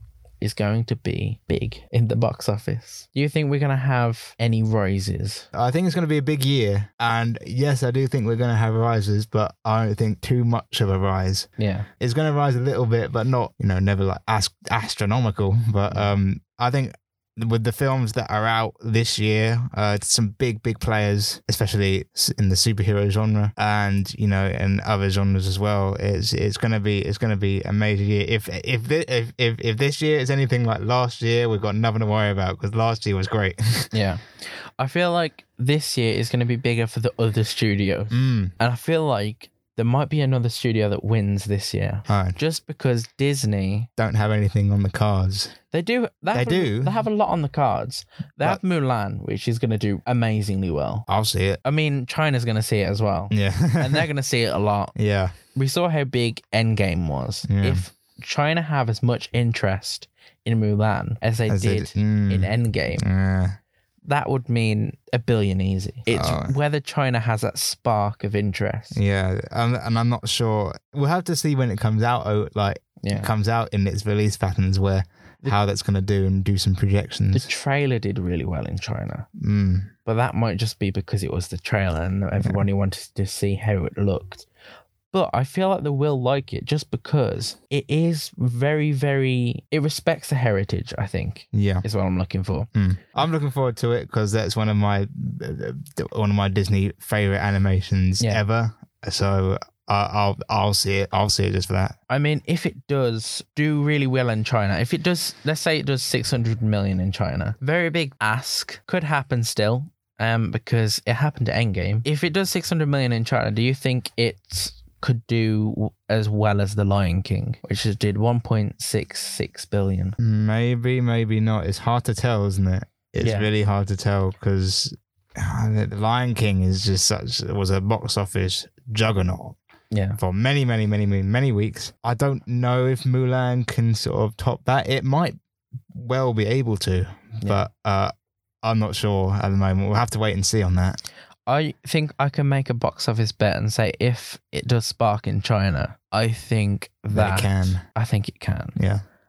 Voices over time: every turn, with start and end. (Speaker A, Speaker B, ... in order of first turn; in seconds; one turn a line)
Speaker A: 0.4-5.5
Speaker B: 5.5-33.9
Speaker A: 11.6-11.9
Speaker A: 33.9-43.9
Speaker B: 38.1-38.5
Speaker B: 42.1-42.4
Speaker B: 44.0-45.5
Speaker A: 45.7-51.0
Speaker B: 46.3-47.0
Speaker B: 51.1-51.6
Speaker A: 51.6-54.9
Speaker B: 53.3-54.1
Speaker B: 55.0-55.3
Speaker A: 55.5-63.0
Speaker B: 57.5-57.8
Speaker B: 61.5-63.6
Speaker A: 64.1-69.0
Speaker B: 66.1-66.5
Speaker B: 68.9-77.5
Speaker A: 73.0-73.3
Speaker A: 77.3-79.3
Speaker B: 79.4-79.9
Speaker A: 80.0-84.5
Speaker A: 85.1-92.7
Speaker B: 91.5-91.8
Speaker B: 92.7-102.0
Speaker A: 102.1-120.2
Speaker B: 120.2-129.6
Speaker A: 123.2-123.5
Speaker A: 129.9-130.2
Speaker B: 130.2-135.4
Speaker B: 135.9-141.0
Speaker A: 141.4-148.8
Speaker B: 147.1-147.8
Speaker B: 148.8-149.0